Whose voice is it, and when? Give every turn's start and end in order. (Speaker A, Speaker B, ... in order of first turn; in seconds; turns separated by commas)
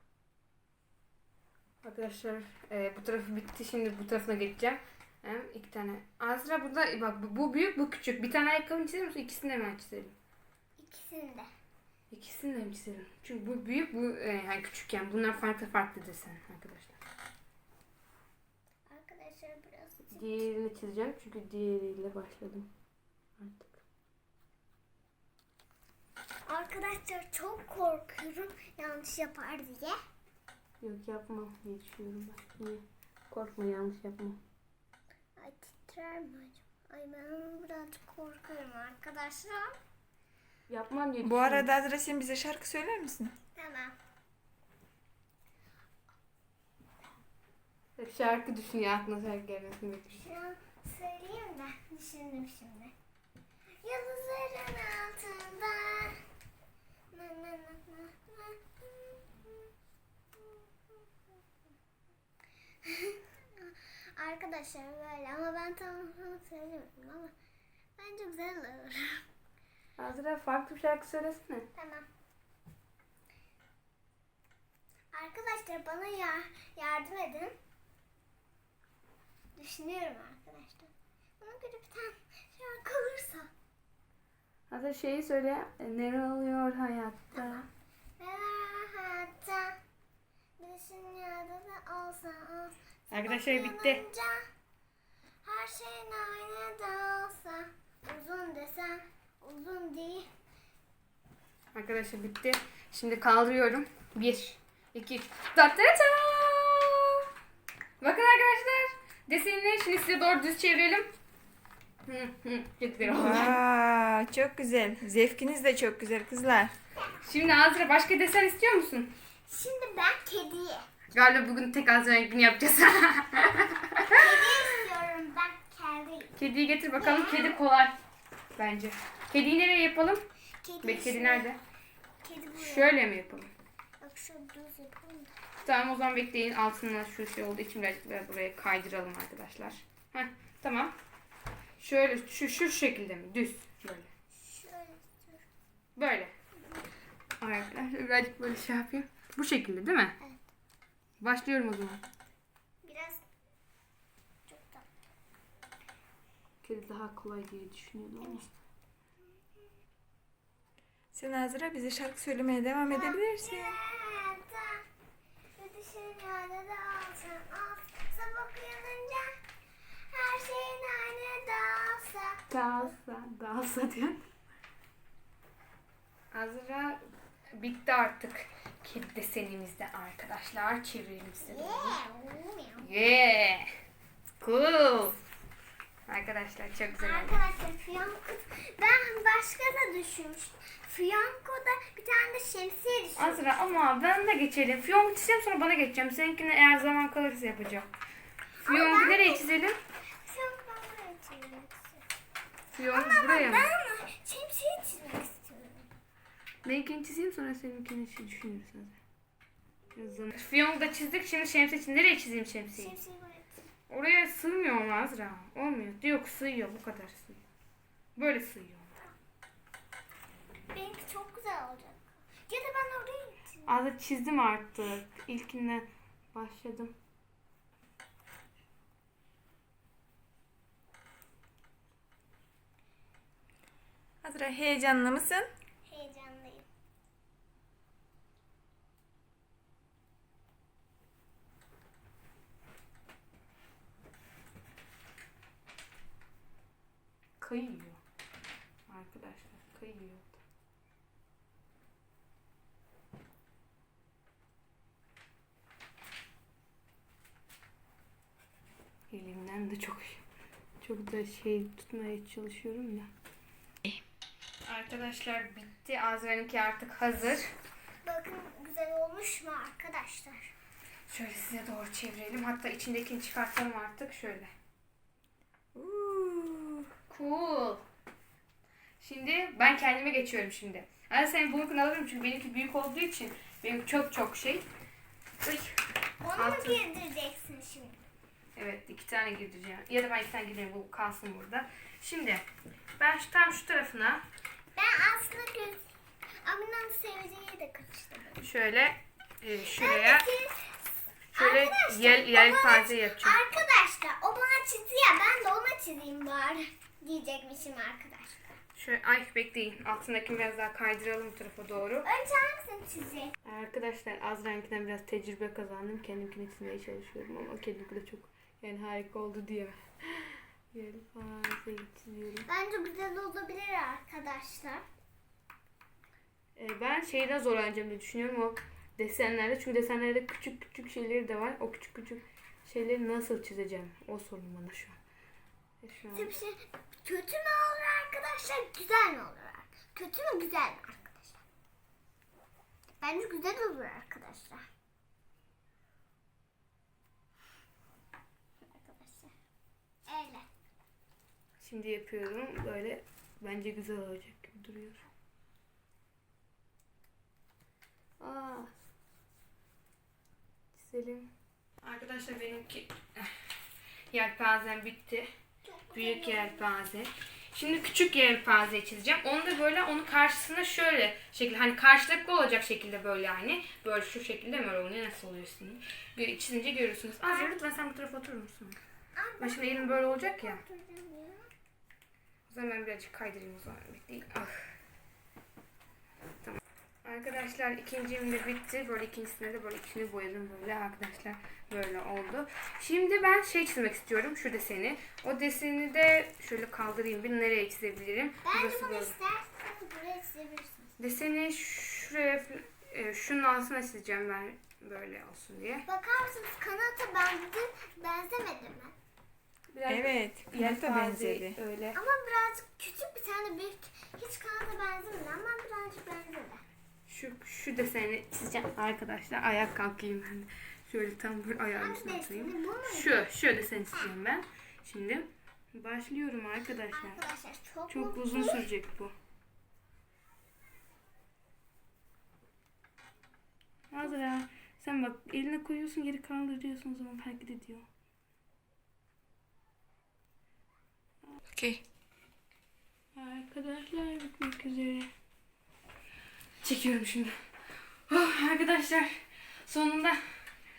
Speaker A: 1.8-10.2, Speaker B: 10.8-11.5, Speaker A: 12.1-17.0, Speaker B: 18.9-20.5, Speaker A: 20.1-22.7, Speaker A: 23.4-23.8, Speaker B: 26.5-30.0, Speaker A: 30.8-34.4, Speaker B: 35.4-39.8, Speaker A: 40.7-41.7, Speaker C: 41.2-43.3, Speaker B: 43.6-44.0, Speaker A: 48.0-50.2, Speaker B: 50.2-52.9, Speaker B: 53.8-56.2, Speaker B: 57.1-59.7, Speaker B: 62.9-67.3, Speaker B: 68.0-69.2, Speaker A: 70.0-71.7, Speaker B: 71.8-72.1, Speaker B: 75.1-77.6, Speaker B: 79.6-83.5, Speaker A: 84.7-87.7, Speaker B: 87.3-87.7, Speaker B: 88.2-89.8, Speaker B: 90.6-94.4, Speaker A: 93.1-94.0, Speaker B: 95.4-100.3, Speaker A: 101.7-107.3, Speaker A: 108.0-111.1, Speaker A: 112.1-113.6, Speaker C: 113.1-116.7, Speaker A: 117.2-119.1, Speaker B: 119.5-120.8, Speaker A: 121.1-124.5, Speaker B: 124.1-126.3, Speaker A: 126.4-128.0, Speaker B: 127.0-127.6, Speaker A: 128.6-130.2, Speaker B: 130.6-131.5, Speaker A: 130.8-131.6, Speaker B: 132.2-132.9, Speaker A: 132.6-133.5, Speaker B: 134.0-135.3, Speaker A: 135.7-140.9, Speaker A: 141.8-144.1, Speaker B: 144.3-145.4, Speaker A: 146.0-146.3, Speaker A: 147.4-150.2, Speaker A: 151.2-152.0, Speaker B: 152.8-153.2, Speaker B: 154.5-154.9, Speaker A: 156.6-158.5, Speaker B: 158.2-158.5, Speaker C: 161.1-163.8, Speaker B: 162.8-164.8, Speaker B: 165.6-169.3, Speaker B: 170.1-172.9, Speaker A: 172.5-174.2, Speaker A: 176.3-177.0, Speaker A: 177.6-182.0, Speaker B: 181.4-182.9, Speaker A: 182.8-183.7, Speaker A: 184.4-185.2, Speaker A: 186.1-187.4, Speaker B: 187.0-193.4, Speaker A: 193.2-197.9, Speaker B: 198.6-199.4, Speaker A: 198.6-199.8, Speaker B: 200.2-202.0, Speaker A: 202.7-203.7, Speaker B: 202.9-205.9, Speaker A: 206.7-209.0, Speaker A: 209.9-213.0, Speaker B: 212.8-213.6, Speaker A: 213.9-217.4, Speaker A: 218.2-218.9, Speaker B: 220.7-223.7, Speaker A: 223.7-226.9, Speaker C: 234.2-235.5, Speaker B: 235.9-236.7, Speaker A: 247.4-248.0, Speaker A: 248.9-250.4, Speaker A: 259.1-260.2, Speaker A: 260.8-263.1, Speaker A: 264.7-267.5, Speaker B: 268.0-270.5, Speaker A: 271.1-274.5, Speaker C: 275.8-276.9, Speaker A: 277.1-277.8, Speaker A: 279.0-284.6, Speaker B: 286.2-288.0, Speaker A: 286.4-286.8, Speaker A: 288.6-292.4, Speaker A: 293.0-294.2, Speaker B: 294.8-295.9, Speaker B: 296.4-298.4, Speaker A: 298.4-300.2, Speaker B: 299.6-300.6, Speaker B: 301.3-308.4, Speaker A: 301.4-303.4, Speaker A: 308.8-312.1, Speaker B: 312.1-313.3, Speaker A: 313.4-322.5, Speaker B: 322.5-324.9, Speaker A: 326.6-335.0, Speaker A: 335.8-336.4, Speaker B: 336.1-341.4, Speaker B: 343.0-344.6, Speaker B: 348.6-349.3, Speaker B: 350.1-350.5, Speaker A: 351.6-355.1, Speaker A: 358.2-358.7, Speaker A: 360.8-361.3, Speaker A: 361.8-363.3, Speaker A: 364.1-365.3, Speaker B: 365.6-366.6, Speaker A: 365.9-378.8, Speaker B: 377.3-377.6, Speaker B: 379.2-381.5, Speaker A: 379.4-380.6, Speaker A: 382.5-384.5, Speaker A: 386.4-399.1, Speaker B: 398.4-400.9, Speaker A: 401.0-405.9, Speaker B: 405.9-408.9, Speaker A: 409.7-412.0, Speaker C: 409.9-411.6, Speaker B: 411.9-416.6, Speaker A: 417.1-427.2, Speaker B: 421.8-423.2, Speaker B: 426.9-428.6, Speaker A: 427.9-429.1, Speaker A: 433.9-437.9, Speaker C: 441.5-441.8, Speaker A: 443.1-445.1, Speaker A: 446.6-447.3, Speaker A: 448.1-449.1, Speaker A: 449.7-450.2